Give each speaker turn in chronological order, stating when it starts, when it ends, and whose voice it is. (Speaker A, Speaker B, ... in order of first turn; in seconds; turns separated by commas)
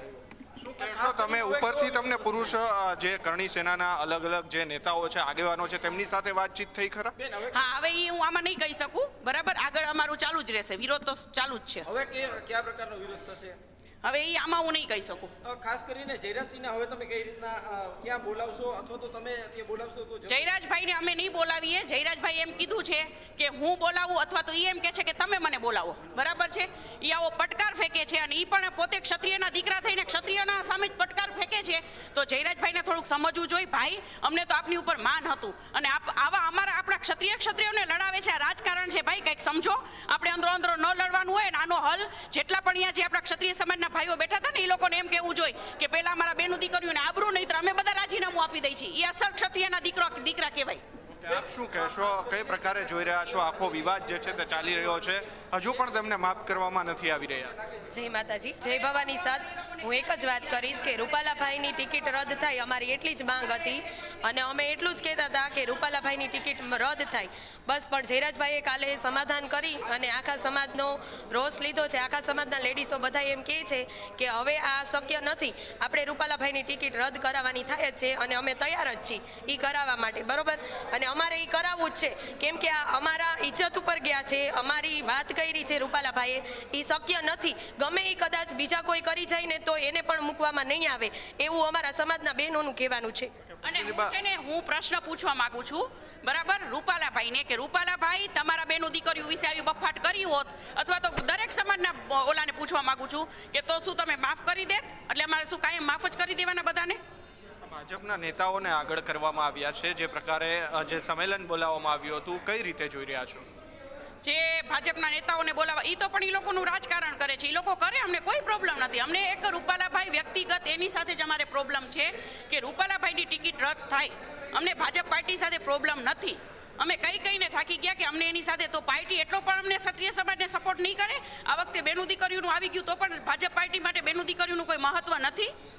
Speaker A: 0.6-7.1, Speaker B: 0.8-2.2, Speaker C: 7.5-11.8, Speaker B: 11.9-13.6, Speaker C: 14.0-15.3, Speaker B: 15.4-20.3, Speaker C: 20.2-50.8, Speaker A: 51.2-57.5, Speaker D: 57.9-93.3, Speaker A: 93.6-94.1, Speaker C: 93.6-107.0, Speaker A: 107.6-113.4, Speaker C: 114.2-135.5